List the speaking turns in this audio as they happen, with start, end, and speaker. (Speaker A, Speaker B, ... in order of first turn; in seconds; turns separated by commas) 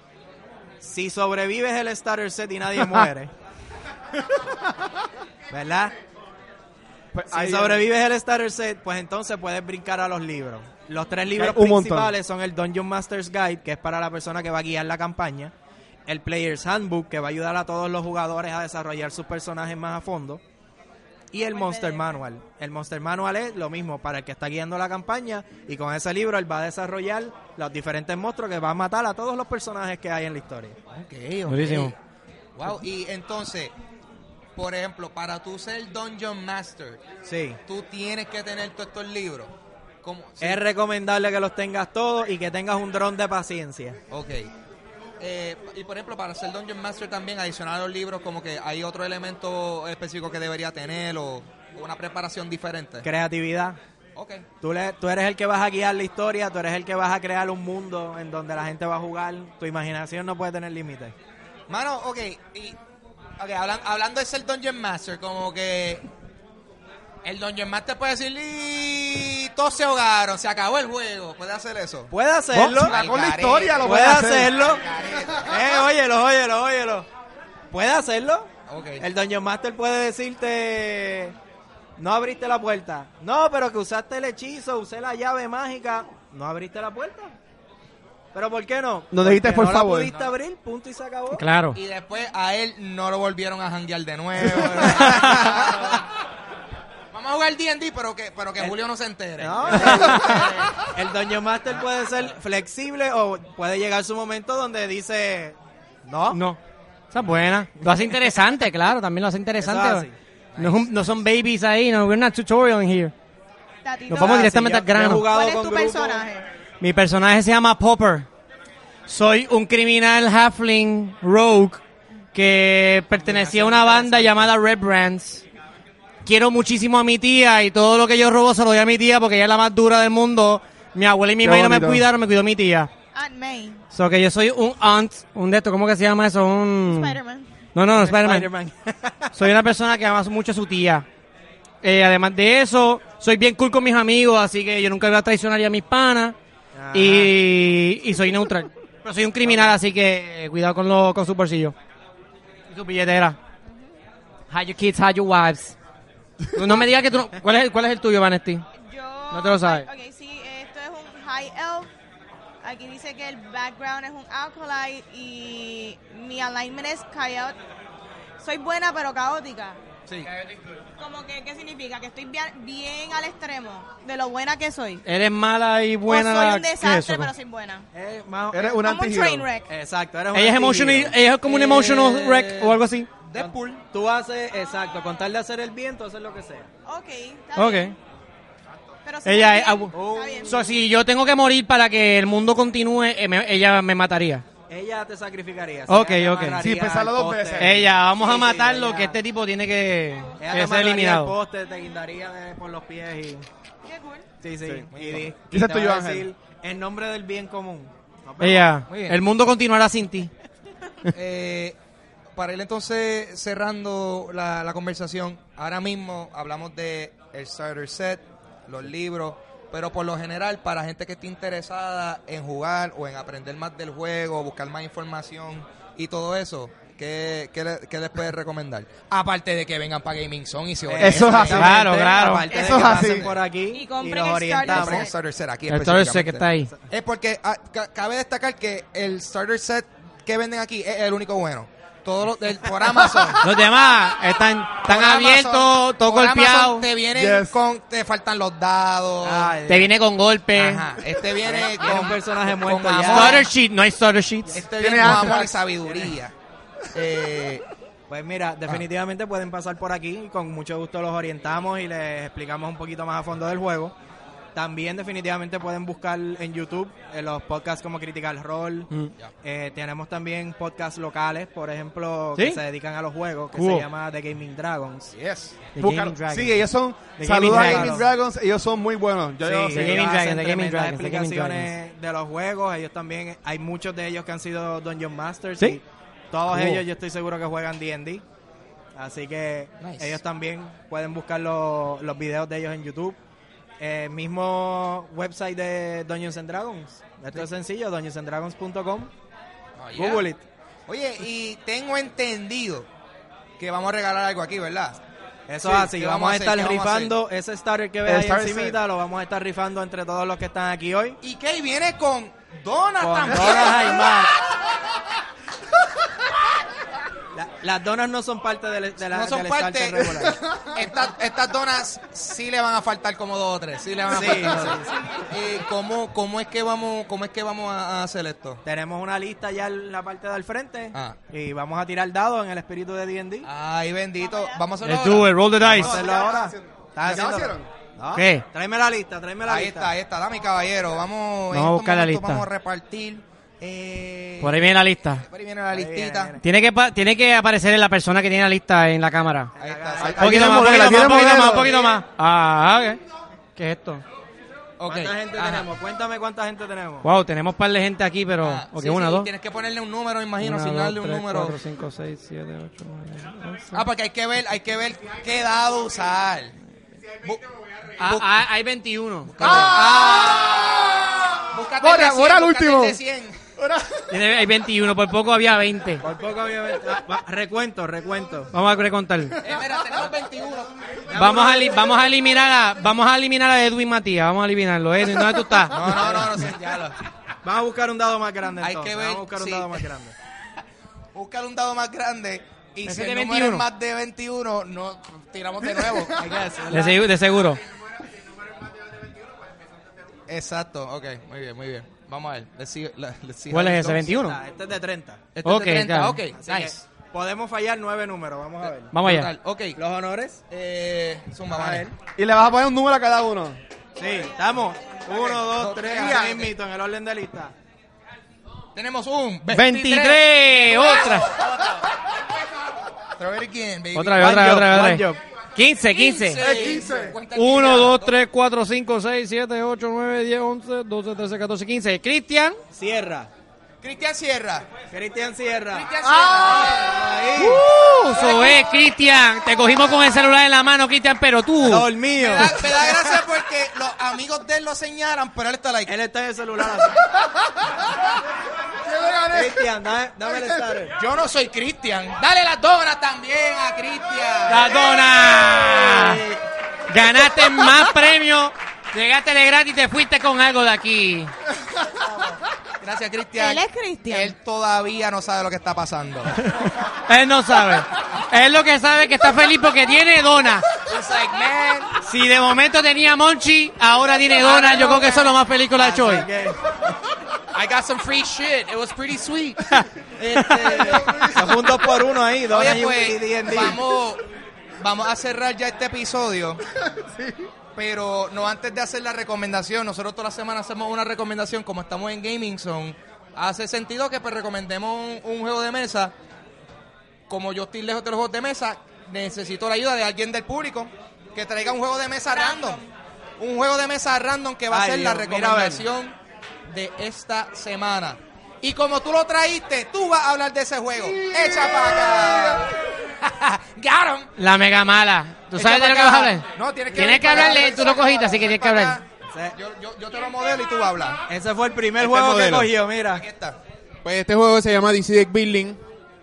Speaker A: 0.8-3.3, Speaker A: 5.5-5.9, Speaker B: 7.1-7.9, Speaker A: 7.3-15.5, Speaker B: 11.3-12.1, Speaker A: 16.1-20.4, Speaker A: 21.3-30.8, Speaker C: 21.5-22.2, Speaker D: 30.9-32.0, Speaker E: 31.5-31.9, Speaker D: 32.5-33.7, Speaker D: 34.5-37.0, Speaker A: 37.2-37.6, Speaker D: 37.6-40.6, Speaker A: 40.4-44.0, Speaker D: 44.1-44.5, Speaker D: 45.2-53.1, Speaker A: 53.0-53.8, Speaker D: 54.1-54.5, Speaker A: 54.6-61.1, Speaker D: 61.7-62.8, Speaker D: 63.4-66.0, Speaker D: 67.2-72.1, Speaker A: 72.1-72.9, Speaker B: 72.5-74.5, Speaker D: 72.8-75.8, Speaker A: 73.8-74.8, Speaker A: 75.4-77.1, Speaker A: 77.7-81.3, Speaker D: 78.7-79.0, Speaker A: 82.0-87.3, Speaker A: 88.3-91.4, Speaker B: 89.1-90.1, Speaker E: 91.3-91.8, Speaker D: 91.7-96.0, Speaker A: 94.7-95.9, Speaker D: 97.1-100.7, Speaker A: 99.4-106.4, Speaker B: 100.1-100.4, Speaker E: 106.3-106.6, Speaker E: 107.1-110.0, Speaker A: 109.6-110.2, Speaker D: 110.5-111.1, Speaker E: 110.6-113.1, Speaker C: 113.8-114.5, Speaker E: 114.1-115.3, Speaker A: 114.1-116.2, Speaker C: 115.2-116.5, Speaker E: 116.8-118.3, Speaker E: 119.1-121.8, Speaker E: 122.3-125.4, Speaker A: 123.1-124.5, Speaker E: 126.2-132.9, Speaker B: 131.4-132.0, Speaker C: 133.1-133.8, Speaker E: 133.9-137.2, Speaker C: 136.8-137.5, Speaker E: 137.7-138.5, Speaker A: 137.9-139.3, Speaker E: 139.3-141.0, Speaker E: 141.8-146.3, Speaker A: 146.7-147.3, Speaker E: 146.9-151.7, Speaker A: 149.4-149.7, Speaker E: 152.7-153.4, Speaker C: 153.7-153.9, Speaker E: 154.5-155.8, Speaker E: 156.5-158.7, Speaker C: 158.8-161.9, Speaker E: 159.3-159.9, Speaker C: 162.6-167.5, Speaker C: 168.4-169.8, Speaker C: 171.0-175.0, Speaker E: 175.0-177.3, Speaker C: 176.1-177.9, Speaker A: 177.9-178.8, Speaker B: 178.5-179.5, Speaker C: 178.7-179.7, Speaker A: 179.7-182.7, Speaker E: 180.3-183.1, Speaker D: 182.1-183.8, Speaker A: 183.3-186.7, Speaker C: 186.8-187.9, Speaker E: 187.5-187.9, Speaker C: 189.0-190.8, Speaker E: 189.2-189.9, Speaker A: 189.9-190.6, Speaker E: 190.4-194.4, Speaker A: 194.7-199.2, Speaker E: 195.9-196.6, Speaker B: 196.6-197.9, Speaker E: 197.6-201.3, Speaker A: 200.4-203.4, Speaker C: 203.8-204.2, Speaker A: 204.4-208.8, Speaker D: 204.9-205.3, Speaker B: 205.5-206.3, Speaker E: 208.4-210.3, Speaker D: 208.9-209.2, Speaker D: 211.1-211.8, Speaker D: 212.3-231.7, Speaker A: 230.8-235.1, Speaker B: 231.0-231.7, Speaker E: 231.5-233.0, Speaker B: 232.5-233.3, Speaker C: 233.7-235.1, Speaker D: 234.6-243.5, Speaker E: 235.7-236.7, Speaker B: 242.9-243.6, Speaker E: 243.4-246.9, Speaker D: 244.8-249.6, Speaker B: 247.1-247.6, Speaker A: 249.2-249.9, Speaker E: 249.7-250.8, Speaker D: 250.5-253.5, Speaker A: 251.4-253.5, Speaker E: 253.1-254.6, Speaker D: 254.5-256.3, Speaker B: 254.8-255.7, Speaker D: 256.9-257.6, Speaker A: 258.1-263.9, Speaker A: 264.5-268.9, Speaker A: 269.4-275.1, Speaker E: 272.4-272.6, Speaker E: 273.5-273.9, Speaker D: 275.1-275.6, Speaker E: 275.8-276.6, Speaker B: 275.8-280.1, Speaker E: 277.2-278.1, Speaker A: 277.4-278.0, Speaker A: 279.4-288.2, Speaker E: 279.7-281.7, Speaker E: 286.5-286.8, Speaker A: 288.9-293.2, Speaker D: 289.8-290.2, Speaker A: 293.8-299.1, Speaker D: 299.8-300.2, Speaker A: 299.9-300.4, Speaker D: 300.9-302.9, Speaker D: 303.6-305.0, Speaker A: 305.5-311.2, Speaker D: 305.6-307.2, Speaker B: 308.0-308.8, Speaker D: 311.2-314.1, Speaker A: 313.0-314.3, Speaker A: 317.3-320.4, Speaker D: 319.0-328.6, Speaker A: 324.1-325.1, Speaker A: 328.6-333.5, Speaker D: 333.4-335.9, Speaker C: 334.3-334.6, Speaker E: 334.8-335.9, Speaker B: 335.7-337.7, Speaker A: 335.7-339.9, Speaker E: 338.1-338.4, Speaker D: 339.4-344.6, Speaker E: 341.5-342.4, Speaker E: 344.4-345.2, Speaker D: 345.2-346.4, Speaker A: 345.7-346.4, Speaker E: 346.4-349.5, Speaker A: 349.5-351.1, Speaker D: 349.6-350.2, Speaker B: 350.0-351.9, Speaker E: 350.2-353.0, Speaker E: 353.6-354.0, Speaker D: 354.8-355.7, Speaker A: 354.9-357.1, Speaker E: 357.0-359.3, Speaker D: 358.4-361.6, Speaker E: 360.4-363.8, Speaker D: 363.7-366.5, Speaker F: 367.6-367.9, Speaker D: 368.0-368.5, Speaker E: 368.0-369.7, Speaker D: 369.2-373.4, Speaker B: 369.4-373.0, Speaker B: 373.6-374.2, Speaker E: 374.1-376.0, Speaker A: 376.0-378.5, Speaker E: 378.5-379.4, Speaker D: 379.4-380.7, Speaker A: 381.1-382.0, Speaker E: 381.1-385.9, Speaker D: 385.7-387.0, Speaker A: 385.9-386.3, Speaker A: 387.4-390.1, Speaker D: 388.6-389.8, Speaker D: 391.1-396.3, Speaker E: 392.9-393.6, Speaker B: 395.8-396.1, Speaker A: 396.1-397.1, Speaker E: 396.7-397.6, Speaker D: 400.3-404.1, Speaker E: 403.5-404.4, Speaker A: 404.0-405.2, Speaker D: 405.3-406.8, Speaker E: 405.4-406.2, Speaker A: 406.3-408.9, Speaker E: 408.9-409.3, Speaker D: 408.9-409.8, Speaker A: 409.8-410.4, Speaker D: 410.5-411.9, Speaker A: 411.5-411.9, Speaker B: 412.2-413.6, Speaker A: 414.0-417.5, Speaker D: 415.1-416.5, Speaker B: 415.9-416.3, Speaker D: 418.7-421.9, Speaker E: 419.5-421.4, Speaker D: 423.1-424.7, Speaker E: 423.9-426.4, Speaker A: 424.2-425.2, Speaker D: 425.8-428.2, Speaker B: 426.4-427.2, Speaker E: 427.3-432.6, Speaker A: 432.7-433.3, Speaker D: 433.8-434.7, Speaker A: 434.9-435.9, Speaker D: 435.7-436.9, Speaker B: 436.0-436.9, Speaker A: 436.6-437.6, Speaker E: 437.4-441.9, Speaker D: 438.1-438.7, Speaker A: 441.6-443.1, Speaker D: 442.2-445.9, Speaker A: 445.9-447.0, Speaker B: 448.8-449.6, Speaker A: 449.3-450.9, Speaker B: 450.3-450.6, Speaker D: 450.9-456.4, Speaker E: 454.5-456.2, Speaker E: 456.9-461.3, Speaker D: 462.8-466.4, Speaker C: 463.4-464.3, Speaker E: 466.6-470.7, Speaker D: 470.8-472.0, Speaker E: 472.0-476.2, Speaker D: 474.3-475.4, Speaker A: 475.8-476.6, Speaker D: 477.5-479.6, Speaker D: 480.2-481.5, Speaker A: 480.6-483.8, Speaker B: 480.8-481.4, Speaker D: 482.5-484.2, Speaker D: 484.8-486.6, Speaker B: 486.9-487.4, Speaker D: 487.7-496.1, Speaker D: 497.3-502.8, Speaker C: 502.3-502.9, Speaker D: 503.4-514.3, Speaker A: 504.7-505.9, Speaker B: 511.1-512.7, Speaker E: 514.4-519.0, Speaker D: 515.5-519.0, Speaker B: 517.1-518.0, Speaker D: 519.5-521.2, Speaker A: 521.3-523.2, Speaker F: 522.1-522.7, Speaker D: 523.1-523.6, Speaker F: 524.0-525.8